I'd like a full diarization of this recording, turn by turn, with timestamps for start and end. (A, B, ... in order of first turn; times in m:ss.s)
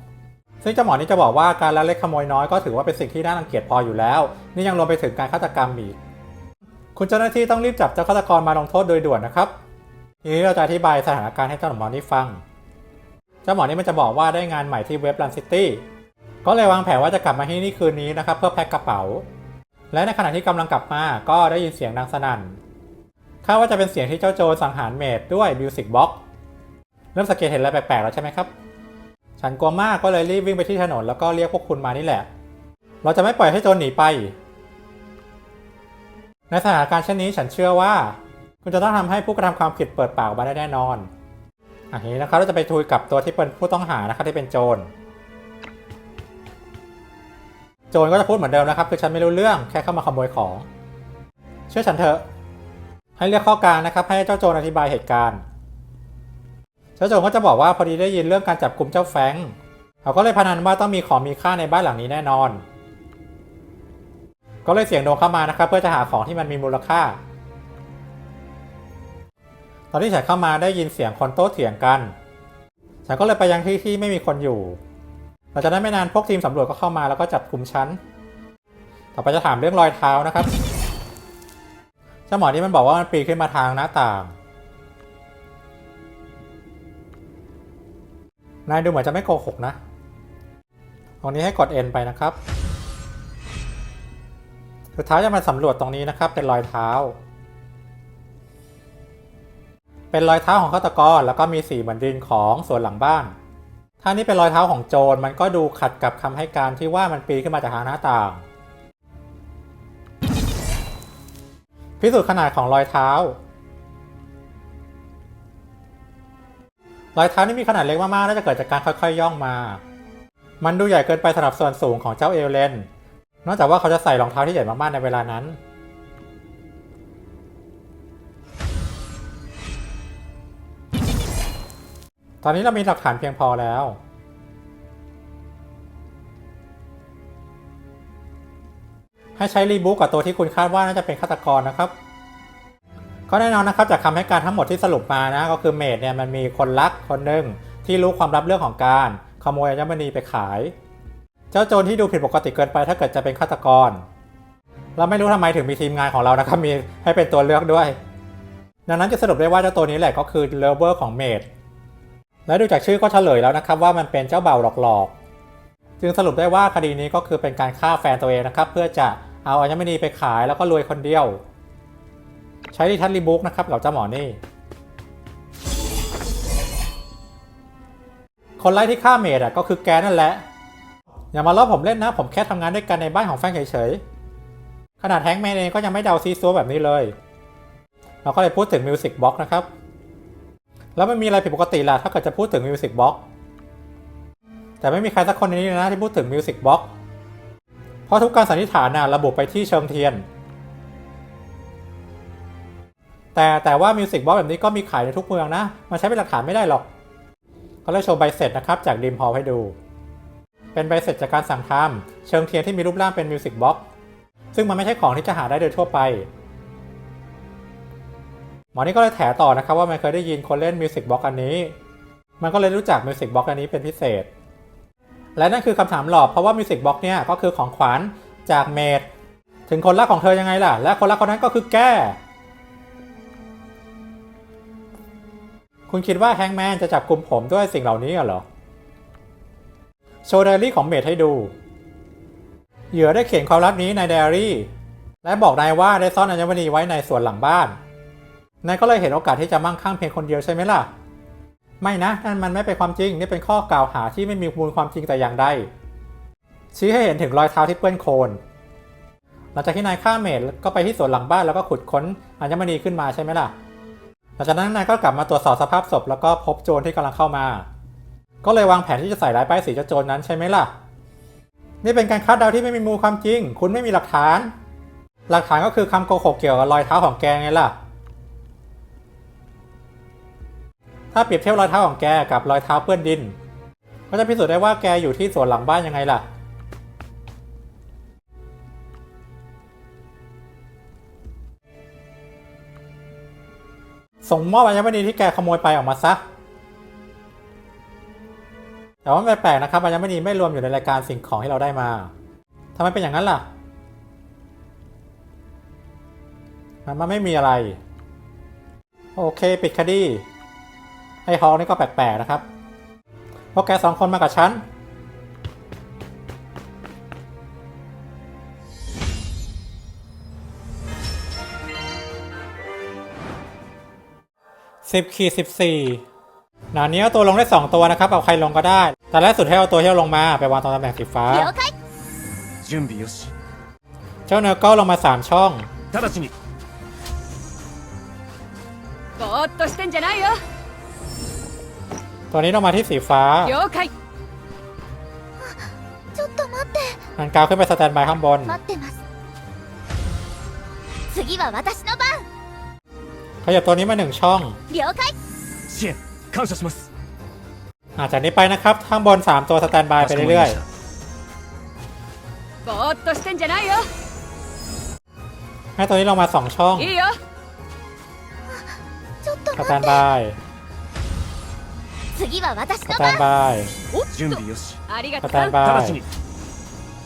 0:00.6-0:06.0 A
0:06.9-0:09.5 A
0:10.2-0:12.4 A
0:13.4-0:15.8 A
0:16.4-0:19.2 A
0:19.9-0:22.6 A
0:23.4-0:26.2 A
0:27.1-0:28.5 A
0:29.4-0:32.3 A
0:33.0-0:34.3 A
0:36.5-0:41.1 A
0:41.9-0:44.9 A
0:47.9-0:50.7 A
0:51.7-0:52.2 A
0:53.2-0:55.4 A
0:57.0-1:02.6 A
1:04.6-1:07.2 A
1:09.9-1:12.1 A
1:13.0-1:14.8 A
1:15.5-1:18.0 A
1:19.1-1:20.5 A
1:22.3-1:24.3 A
1:28.7-1:29.8 A
1:31.2-1:32.4 A
1:35.0-1:37.2 A
1:40.1-1:43.3 A
1:44.0-1:48.4 A
1:52.0-1:53.4 A
1:57.1-1:59.8 A
2:00.6-2:02.9 A
2:03.4-2:05.6 A
2:12.4-2:14.0 A
2:19.4-2:21.9 A
2:23.3-2:30.7 A
2:31.5-2:34.0 A
2:35.0-2:38.0 A
2:38.9-2:41.5 A
2:42.5-2:45.1 A
2:46.0-2:51.4 A
2:52.7-2:54.4 A
2:58.6-3:00.4 A
3:01.3-3:04.0 A
3:05.0-3:07.1 A
3:08.2-3:09.7 A
3:11.0-3:13.2 A
3:14.8-3:16.9 A
3:18.1-3:20.2 A
3:23.3-3:26.8 A
3:27.8-3:29.8 A
3:30.7-3:33.8 A
3:34.5-3:36.3 A
3:38.7-3:41.7 A
3:42.4-3:44.3 A
3:45.4-3:49.1 A
3:49.7-3:52.2 A
3:55.9-3:58.4 A
4:00.2-4:01.5 A
4:02.9-4:04.7 A
4:05.2-4:07.8 A
4:08.6-4:10.9 A
4:11.8-4:15.7 A
4:16.7-4:18.4 A
4:19.5-4:23.5 A
4:24.4-4:27.6 A
4:28.4-4:30.7 A
4:31.8-4:34.5 A
4:35.3-4:37.7 A
4:41.1-4:43.4 A
4:44.1-4:46.2 A
4:54.2-4:56.2 A
4:59.0-5:02.1 A
5:02.8-5:03.4 A
5:06.8-5:07.8 A
5:09.2-5:10.2 A
5:11.2-5:12.4 A
5:13.5-5:14.6 A
5:24.8-5:26.0 A
5:26.7-5:31.5 A
5:31.3-5:31.7 B
5:32.6-5:33.3 C
5:34.3-5:35.7 A
5:35.9-5:36.3 C
5:39.2-5:40.4 D
5:42.3-5:43.5 A
5:43.4-5:43.9 D
5:46.1-5:47.0 B
5:47.2-5:48.6 A
5:48.4-5:49.0 B
5:51.1-5:52.2 B
5:53.4-5:54.6 A
5:54.7-5:55.2 B
5:55.7-5:56.9 C
5:58.0-6:00.6 A
6:00.0-6:00.6 C
6:02.6-6:03.9 D
6:05.8-6:06.9 A
6:06.8-6:07.2 D
6:09.2-6:10.0 B
6:09.6-6:10.4 A
6:12.1-6:13.3 B
6:12.9-6:13.7 A
6:13.9-6:15.6 D
6:14.1-6:14.8 C
6:15.2-6:16.0 A
6:15.6-6:16.0 C